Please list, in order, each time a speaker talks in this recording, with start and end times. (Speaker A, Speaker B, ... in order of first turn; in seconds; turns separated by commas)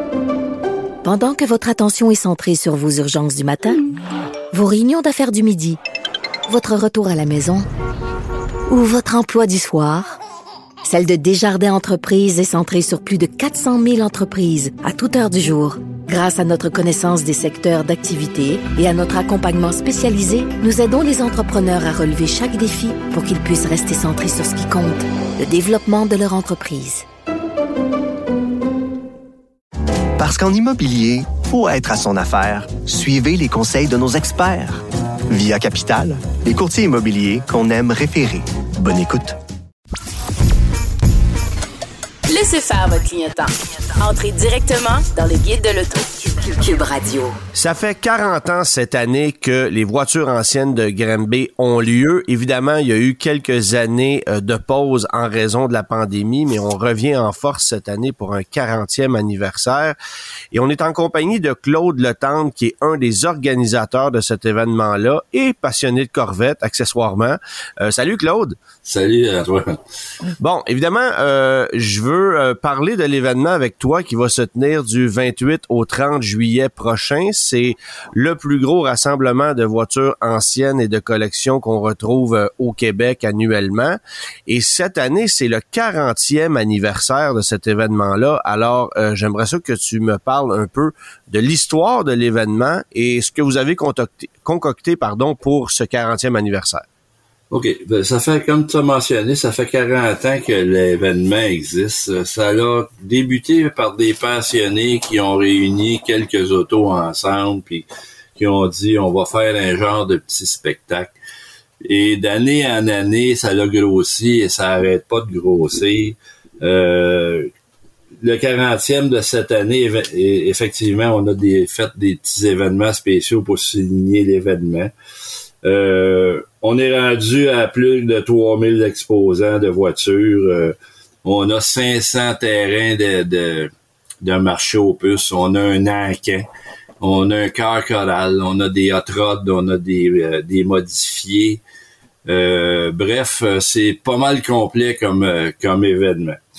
Speaker A: 1.0-3.8, Speaker A: 4.5-5.8, Speaker A: 6.5-7.7, Speaker A: 8.7-10.2, Speaker A: 10.8-27.0, Speaker B: 30.2-39.4, Speaker C: 42.3-47.4, Speaker D: 47.5-60.0, Speaker D: 60.5-68.5, Speaker E: 68.8-69.8, Speaker D: 70.4-96.8, Speaker E: 97.5-111.1, Speaker E: 111.8-117.5, Speaker E: 118.2-124.9, Speaker E: 125.6-136.4, Speaker E: 137.0-141.6, Speaker E: 142.2-146.4